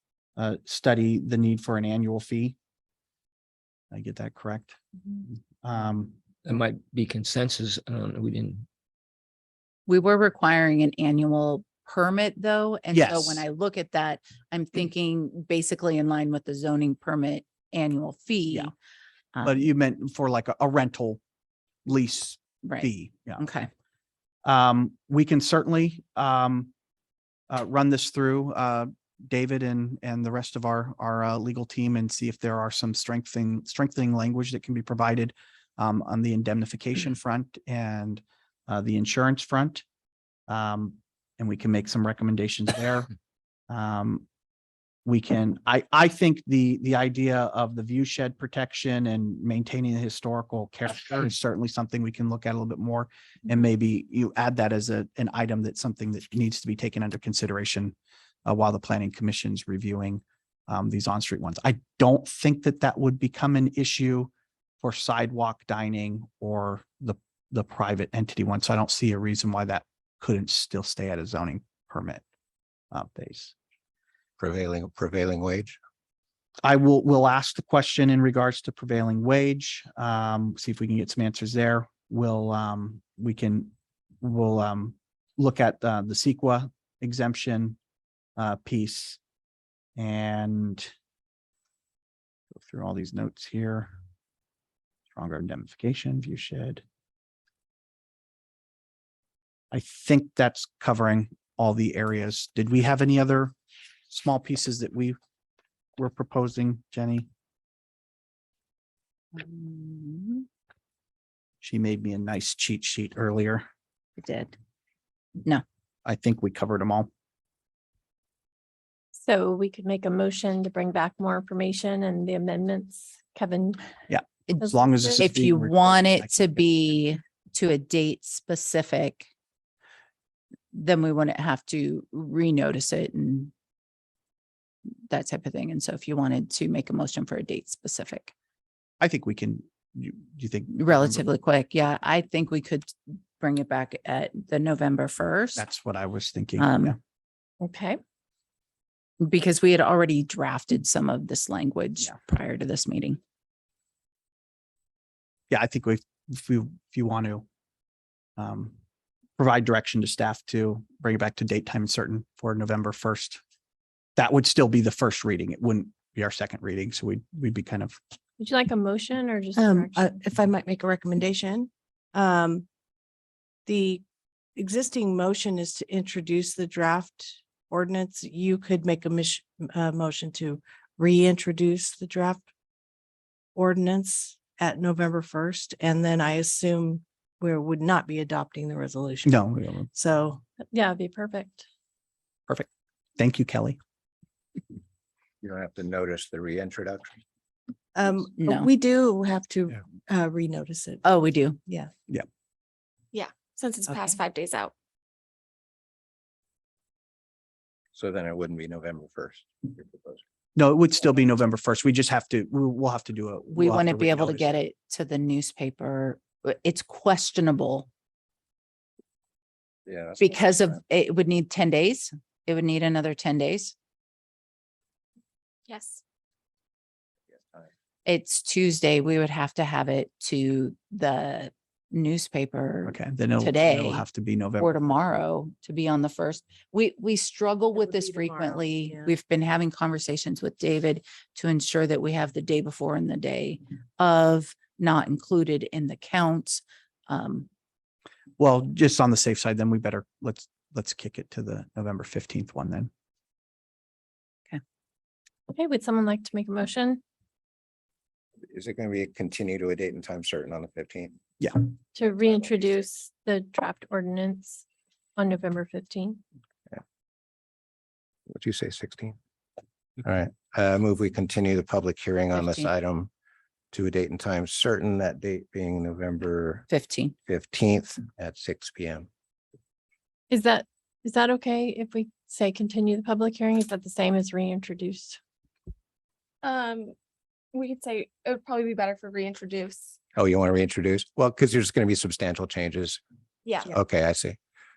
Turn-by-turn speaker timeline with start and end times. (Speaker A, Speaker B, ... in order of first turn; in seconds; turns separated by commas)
Speaker A: 0.4-2.6, Speaker A: 3.9-4.8, Speaker A: 5.6-6.2, Speaker B: 6.5-8.7, Speaker C: 9.9-18.7, Speaker A: 12.9-13.4, Speaker A: 19.4-21.2, Speaker A: 21.9-23.4, Speaker C: 22.6-23.7, Speaker A: 24.4-26.7, Speaker A: 27.5-39.9, Speaker A: 40.5-43.1, Speaker A: 43.7-44.3, Speaker A: 45.0-72.2, Speaker A: 72.9-73.5, Speaker D: 74.4-75.8, Speaker A: 76.6-87.8, Speaker A: 88.4-89.2, Speaker A: 90.0-90.9, Speaker A: 92.5-93.9, Speaker A: 95.1-96.8, Speaker A: 99.7-103.5, Speaker A: 104.1-105.2, Speaker A: 106.0-107.3, Speaker C: 109.3-110.5, Speaker A: 111.6-113.7, Speaker C: 114.2-114.5, Speaker A: 116.0-117.1, Speaker E: 119.2-123.9, Speaker A: 124.1-126.3, Speaker E: 124.6-125.3, Speaker C: 125.2-129.3, Speaker C: 130.7-133.5, Speaker C: 135.1-138.3, Speaker A: 139.0-141.2, Speaker C: 140.7-145.7, Speaker A: 145.6-147.0, Speaker C: 146.6-146.9, Speaker E: 147.6-148.0, Speaker C: 149.2-153.2, Speaker A: 155.5-157.5, Speaker A: 158.4-158.8, Speaker A: 159.4-163.4, Speaker A: 164.2-168.0, Speaker E: 168.4-170.1, Speaker F: 169.6-172.7, Speaker F: 173.7-174.0, Speaker F: 174.6-182.4, Speaker F: 183.6-190.4, Speaker A: 189.2-189.9, Speaker E: 190.6-191.7, Speaker A: 192.5-193.8, Speaker D: 195.4-197.2, Speaker F: 197.9-201.0, Speaker C: 198.4-198.7, Speaker C: 201.0-201.9, Speaker G: 203.1-204.7, Speaker D: 207.9-210.2, Speaker A: 210.6-214.5, Speaker C: 213.5-217.9, Speaker D: 219.9-220.4, Speaker C: 220.2-223.7, Speaker G: 225.7-226.0, Speaker C: 228.1-234.0, Speaker A: 232.9-234.7, Speaker C: 234.6-247.5, Speaker F: 237.8-239.1, Speaker A: 248.4-252.9, Speaker E: 255.5-257.0, Speaker D: 258.5-261.2, Speaker E: 261.9-264.6, Speaker E: 265.2-266.2, Speaker D: 268.3-269.2, Speaker D: 270.0-273.1, Speaker C: 272.3-272.7, Speaker D: 273.7-276.7, Speaker C: 276.7-277.1, Speaker D: 277.3-279.1, Speaker E: 280.3-285.2, Speaker G: 286.4-286.9, Speaker G: 287.5-289.9, Speaker D: 290.1-293.0, Speaker G: 293.5-293.7, Speaker D: 293.6-294.4